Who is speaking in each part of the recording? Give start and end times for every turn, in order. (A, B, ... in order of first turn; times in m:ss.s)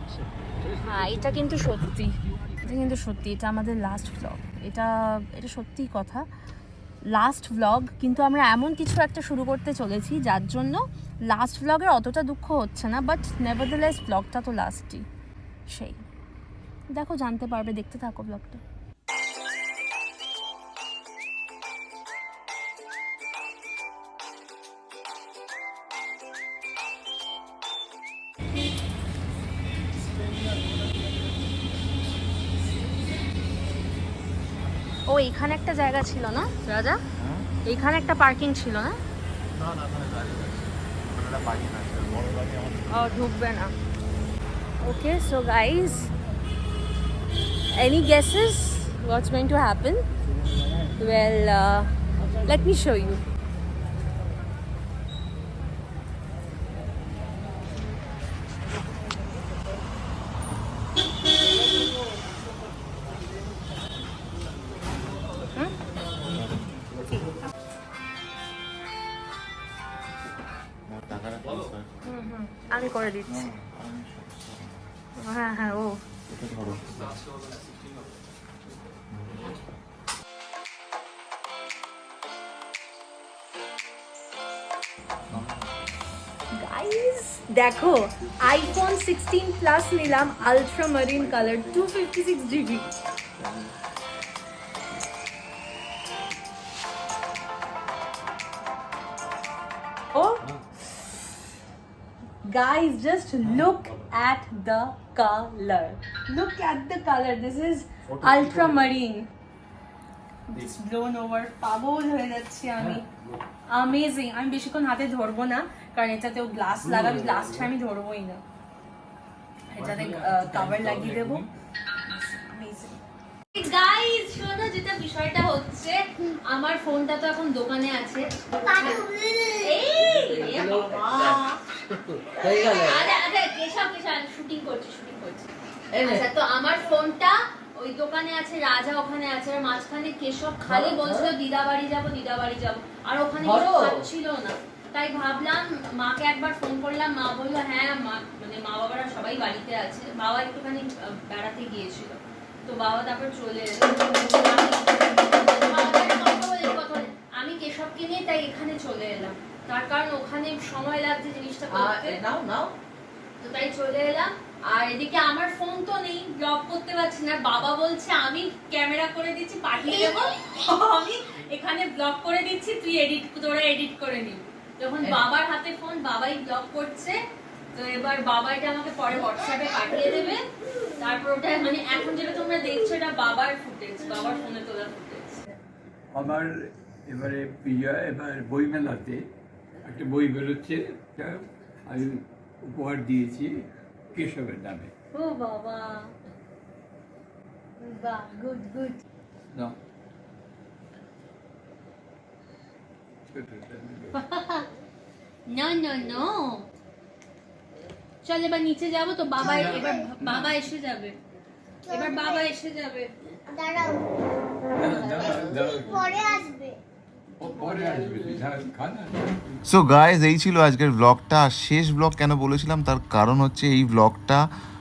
0:00.8-0:06.2 A
0:07.1-0:15.0 A
0:15.7-0:16.0 A
0:16.9-0:18.6 A
0:35.1-0:37.0 A
0:37.2-0:37.4 B
0:37.6-0:39.0 A
0:39.6-0:40.6 B
0:41.1-0:42.8 B
0:42.9-0:43.7 A
0:44.8-0:46.1 A
0:47.7-0:50.0 A
0:51.0-0:51.9 A
0:52.4-0:53.2 A
1:06.2-1:06.8 B
1:10.9-1:11.9 B
1:12.0-1:13.5 A
1:13.3-1:14.9 B
1:15.2-1:16.0 A
1:16.3-1:17.2 B
1:19.1-1:19.8 B
1:25.3-1:25.7 B
1:26.6-1:32.9 A
1:42.5-1:49.3 A
1:48.1-1:48.8 C
1:50.5-1:53.0 A
1:52.8-1:53.4 C
1:53.7-1:58.4 A
1:56.8-1:57.7 C
1:59.7-2:01.4 A
1:59.8-2:01.5 C
2:02.0-2:03.0 A
2:03.5-2:09.0 A
2:08.6-2:10.0 D
2:09.6-2:11.2 A
2:10.3-2:11.5 C
2:10.9-2:11.5 E
2:12.4-2:12.8 E
2:12.6-2:15.5 A
2:16.0-2:42.2 A
2:23.6-2:23.9 E
2:41.7-2:42.7 E
2:43.4-2:57.2 A
2:57.7-3:00.4 A
3:01.0-3:05.4 A
3:06.1-3:06.5 C
3:07.0-3:09.3 C
3:09.8-3:13.6 C
3:14.1-3:14.9 C
3:15.1-3:16.1 A
3:17.8-3:19.0 A
3:23.3-3:24.2 C
3:24.1-3:24.7 A
3:25.5-3:26.7 A
3:28.2-3:31.2 A
3:29.4-3:30.6 C
3:29.4-3:30.1 D
3:31.9-3:32.5 D
3:31.9-3:33.1 A
3:33.5-3:34.2 D
3:34.7-3:36.2 C
3:35.0-3:36.8 D
3:37.4-3:39.6 C
3:39.6-3:44.4 B